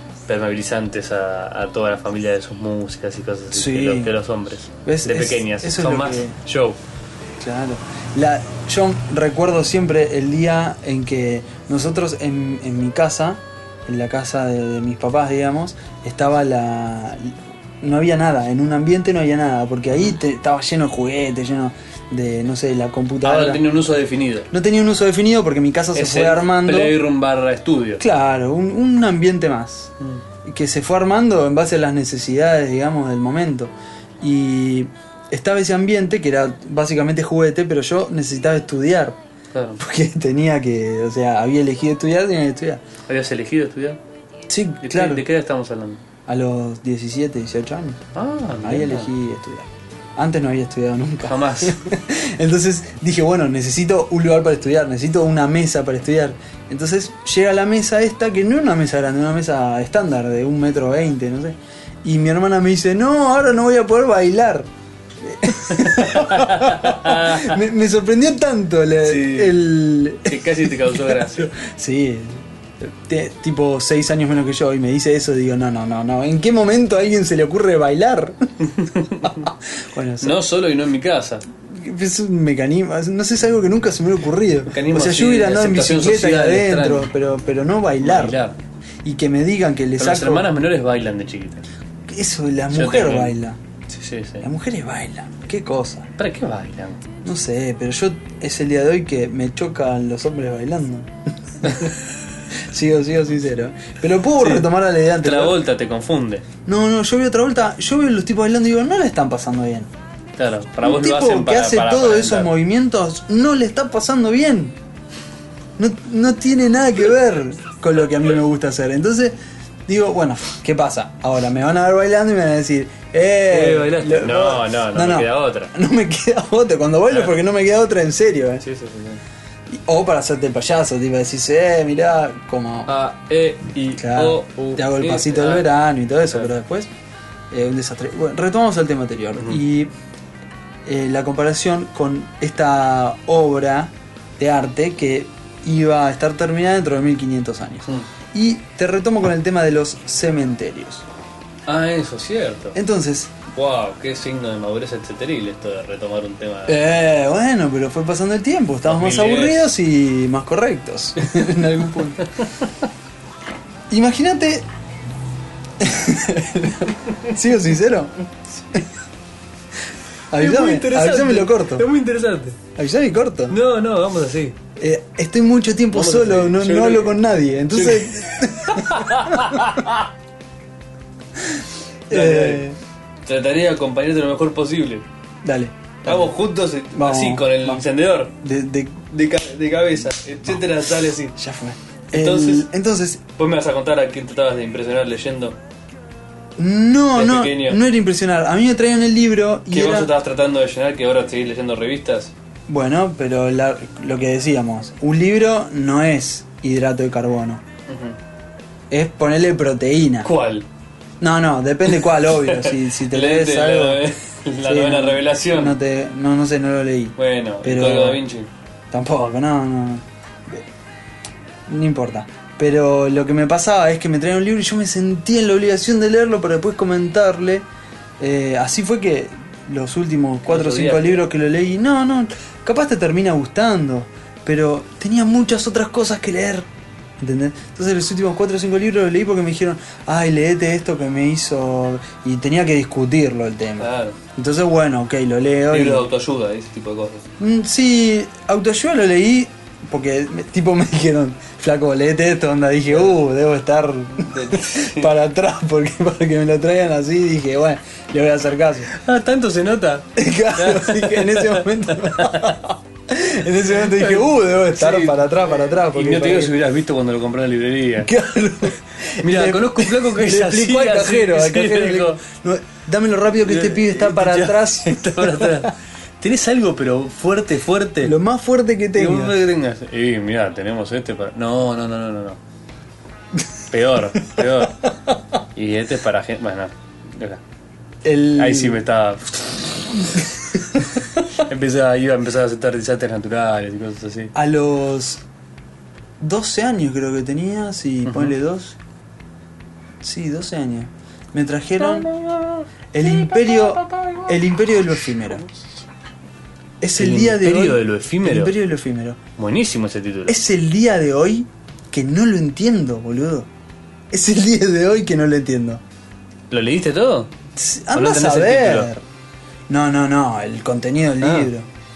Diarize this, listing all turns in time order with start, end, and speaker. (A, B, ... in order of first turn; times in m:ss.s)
0:00.3-0:06.8 A
0:03.5-0:04.1 B
0:04.8-0:06.4 B
0:07.4-0:23.6 B
0:23.2-0:24.5 A
0:24.5-0:27.0 B
0:25.9-0:28.0 A
0:28.0-0:29.9 B
0:30.4-0:39.2 B
0:39.5-0:39.8 A
0:39.8-0:42.8 B
0:43.1-0:44.0 A
0:44.5-0:45.2 B
0:44.8-0:46.0 A
0:46.3-0:48.0 B
0:48.1-0:49.1 A
0:48.6-1:04.7 B
0:51.2-0:51.9 A
1:05.2-1:18.5 B
1:05.7-1:07.6 A
1:09.0-1:09.6 A
1:10.2-1:11.5 A
1:18.6-1:19.5 A
1:19.2-1:20.4 B
1:20.2-1:21.4 A
1:21.6-1:28.4 B
1:24.7-1:27.1 A
1:28.0-1:28.6 A
1:29.0-1:30.5 B
1:30.0-1:31.6 A
1:32.1-1:33.6 B
1:32.7-1:33.3 A
1:33.9-1:34.5 A
1:34.4-1:36.1 B
1:36.2-1:37.0 A
1:37.2-1:42.0 B
1:41.6-1:41.9 A
1:42.5-1:45.6 B
1:44.4-1:46.4 A
1:46.6-1:49.9 B
1:50.4-1:52.5 A
1:50.8-1:54.8 B
1:55.8-2:08.6 B
2:03.5-2:05.7 A
2:07.1-2:07.3 A
2:08.6-2:09.2 A
2:09.7-2:12.9 B
2:12.9-2:15.7 A
2:14.0-2:16.9 B
2:17.5-2:19.9 B
2:19.4-2:19.6 A
2:20.8-2:31.0 B
2:31.6-2:32.8 A
2:32.7-2:33.3 B
2:33.5-2:36.8 A
2:36.7-2:42.2 B
2:38.8-2:39.7 A
2:42.4-2:42.7 A
2:43.9-2:44.7 B
2:45.8-2:48.1 B
2:50.3-2:51.9 B
2:50.3-2:52.6 A
2:52.8-2:53.6 B
2:53.5-2:54.6 A
2:54.8-2:59.7 B
2:55.9-3:00.1 A
3:02.1-3:02.8 B
3:02.1-3:02.7 A
3:03.2-3:05.0 A
3:05.4-3:06.3 B
3:06.0-3:08.3 A
3:06.9-3:07.8 B
3:08.4-3:09.0 B
3:09.1-3:11.4 A
3:11.4-3:13.2 B
3:12.1-3:12.7 A
3:13.3-3:15.6 A
3:16.6-3:20.1 B
3:17.1-3:17.8 A
3:19.7-3:22.3 A
3:22.7-3:27.6 B
3:27.9-3:28.2 A
3:28.9-3:30.3 B
3:30.2-3:30.6 A
3:31.2-3:34.0 B
3:31.9-3:35.8 A
3:34.6-3:38.2 B
3:37.2-3:38.5 A
3:38.9-3:40.6 B
3:41.7-3:47.6 B
3:48.2-3:56.7 B
3:50.4-3:51.3 A
3:57.2-4:06.1 B
4:03.8-4:04.2 A
4:05.7-4:07.3 A
4:07.4-4:18.9 B
4:12.9-4:13.2 A
4:14.1-4:15.1 A
4:18.9-4:22.6 A
4:20.2-4:26.6 B
4:23.6-4:28.1 A
4:28.0-4:35.7 B
4:29.2-4:32.2 A
4:33.4-4:38.2 A
4:38.0-4:39.4 B
4:38.9-4:42.4 A
4:43.7-4:44.9 A
4:45.5-4:47.4 A
4:48.0-4:48.8 B
4:48.4-4:49.7 A
4:51.0-4:54.3 A
4:54.3-4:55.2 B
4:56.2-4:58.8 B
4:58.0-4:58.3 A
5:00.0-5:02.1 B
5:01.8-5:04.4 A
5:02.9-5:05.4 B
5:06.8-5:09.2 B
5:06.9-5:08.5 A
5:09.4-5:10.4 A
5:10.3-5:13.5 B
5:14.1-5:15.8 B
5:16.5-5:17.3 A
5:17.5-5:19.0 B
5:17.9-5:18.9 A
5:19.7-5:21.7 B
5:21.2-5:21.5 A